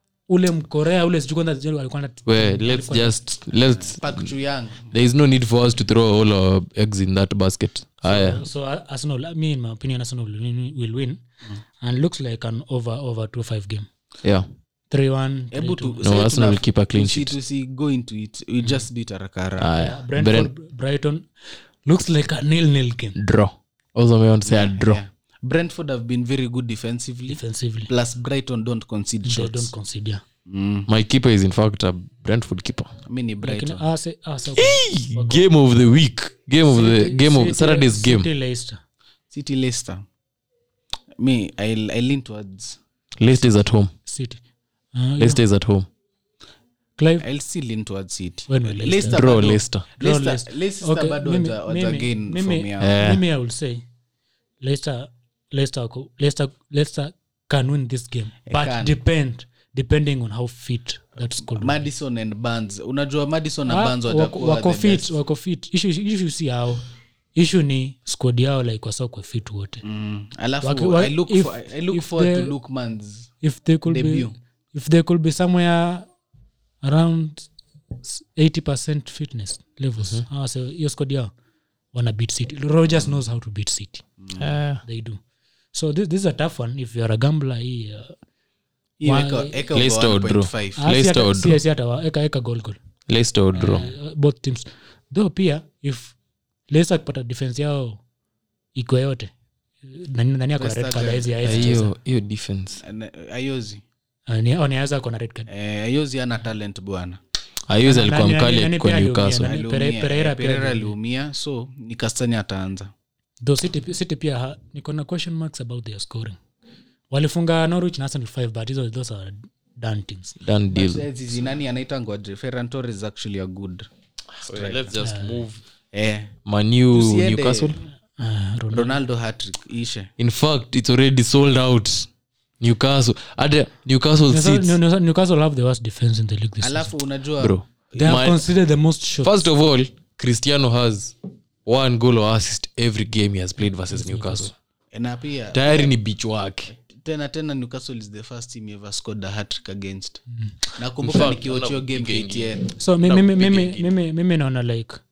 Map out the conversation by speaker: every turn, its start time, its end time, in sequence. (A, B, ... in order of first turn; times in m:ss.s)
0:00.3-0:03.2 A
0:02.3-0:04.3 B
0:03.8-0:04.9 C
0:04.9-0:08.4 B
0:08.0-0:11.2 A
0:11.8-0:13.9 A
0:14.9-0:16.0 A
0:15.5-0:19.7 C
0:16.0-0:17.3 B
0:19.6-0:20.5 B
0:19.8-0:21.2 A
0:21.8-0:23.2 A
0:23.2-0:25.0 B
0:24.4-0:29.7 C
0:27.3-0:27.9 A
0:29.2-0:30.2 A
0:30.4-0:30.9 C
0:30.9-0:32.9 B
0:33.0-0:33.8 C
0:33.4-0:35.4 A
0:34.6-0:38.3 B
0:36.7-0:38.8 A
0:39.3-0:40.0 C
0:41.2-0:42.8 C
0:43.2-0:43.9 B
0:44.1-0:44.4 A
0:44.9-0:45.4 A
0:45.2-0:45.9 B
0:47.0-0:47.2 A
0:47.2-0:53.0 C
0:48.5-0:49.2 A
0:49.1-0:49.8 B
0:50.0-0:53.8 A
0:52.8-0:53.2 B
0:54.6-1:01.8 A
0:58.5-0:59.0 C
1:01.5-1:05.2 C
1:03.7-1:09.8 A
1:09.8-1:13.3 C
1:10.6-1:12.5 A
1:13.4-1:16.1 A
1:13.8-1:14.3 C
1:16.8-1:17.5 A
1:18.0-1:21.3 A
1:20.0-1:20.2 B
1:21.9-1:24.0 A
1:24.2-1:24.5 C
1:24.4-1:24.8 B
1:24.8-1:25.2 A
1:25.7-1:28.1 A
1:29.0-1:30.9 C
1:29.0-1:29.6 A
1:29.7-1:31.6 B
1:30.8-1:32.8 A
1:33.1-1:33.9 B
1:33.5-1:33.9 C
1:33.6-1:36.1 A
1:36.7-1:38.0 A
1:38.7-1:39.3 A
1:39.8-1:41.9 A
1:40.6-1:41.8 C
1:41.4-1:42.8 B
1:42.8-1:43.8 C
1:44.3-1:45.5 A
1:45.5-1:47.2 C
1:47.7-1:49.5 B
1:47.8-1:50.9 A
1:49.3-1:52.9 C
1:53.4-1:56.4 A
1:57.1-2:00.4 A
2:00.4-2:01.1 B
2:00.7-2:03.9 C
2:04.4-2:05.6 B
2:04.4-2:04.9 C
2:05.0-2:05.4 A
2:05.9-2:06.3 C
2:06.4-2:07.8 B
2:06.9-2:07.8 C
2:08.2-2:09.0 A
2:08.7-2:10.1 C
2:10.2-2:12.1 B
2:12.6-2:14.8 B
2:14.3-2:16.9 A
2:16.6-2:18.3 C
2:17.4-2:18.4 B
2:18.0-2:19.5 A
2:19.2-2:24.5 B
2:23.9-2:24.5 A
2:24.9-2:25.9 C
2:25.5-2:26.7 B
2:26.7-2:30.2 C
2:30.8-2:32.6 C
2:31.0-2:33.9 B
2:32.8-2:35.0 A